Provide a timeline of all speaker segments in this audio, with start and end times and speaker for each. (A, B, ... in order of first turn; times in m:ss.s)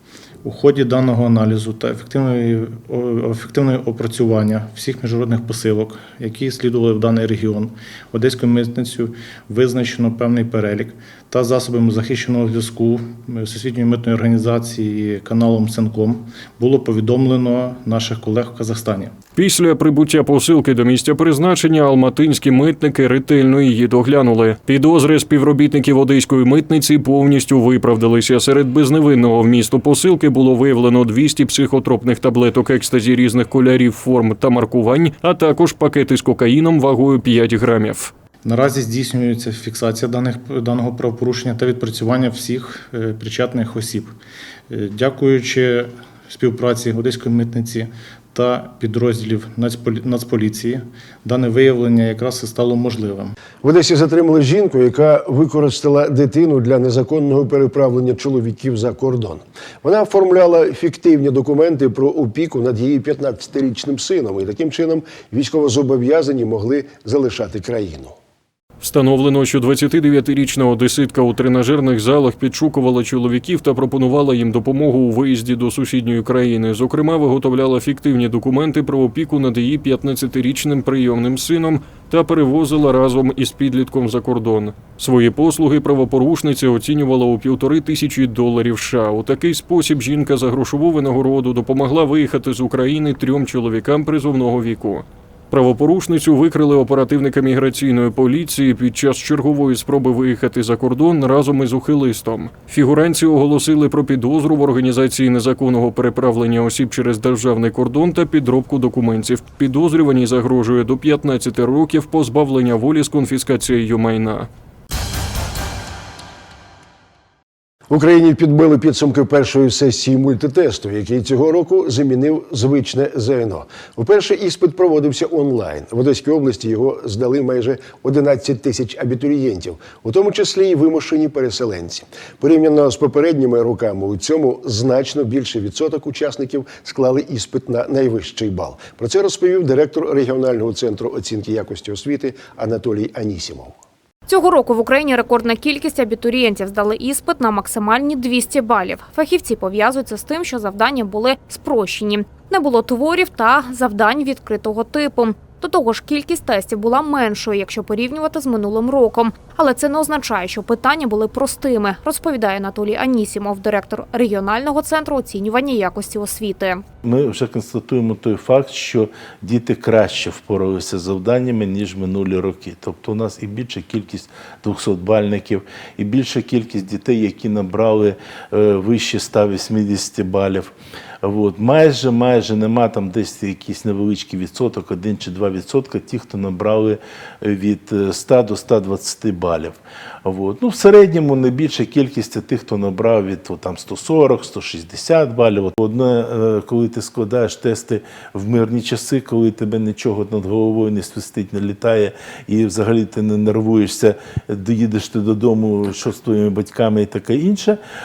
0:00.4-0:19.2 A
0:19.4-0:38.1 B
0:38.4-0:44.2 A
0:44.7-0:53.4 A
0:53.6-1:08.2 C
1:08.8-1:54.5 B
1:57.9-2:23.8 C
2:24.3-2:46.8 D
2:47.0-3:27.8 E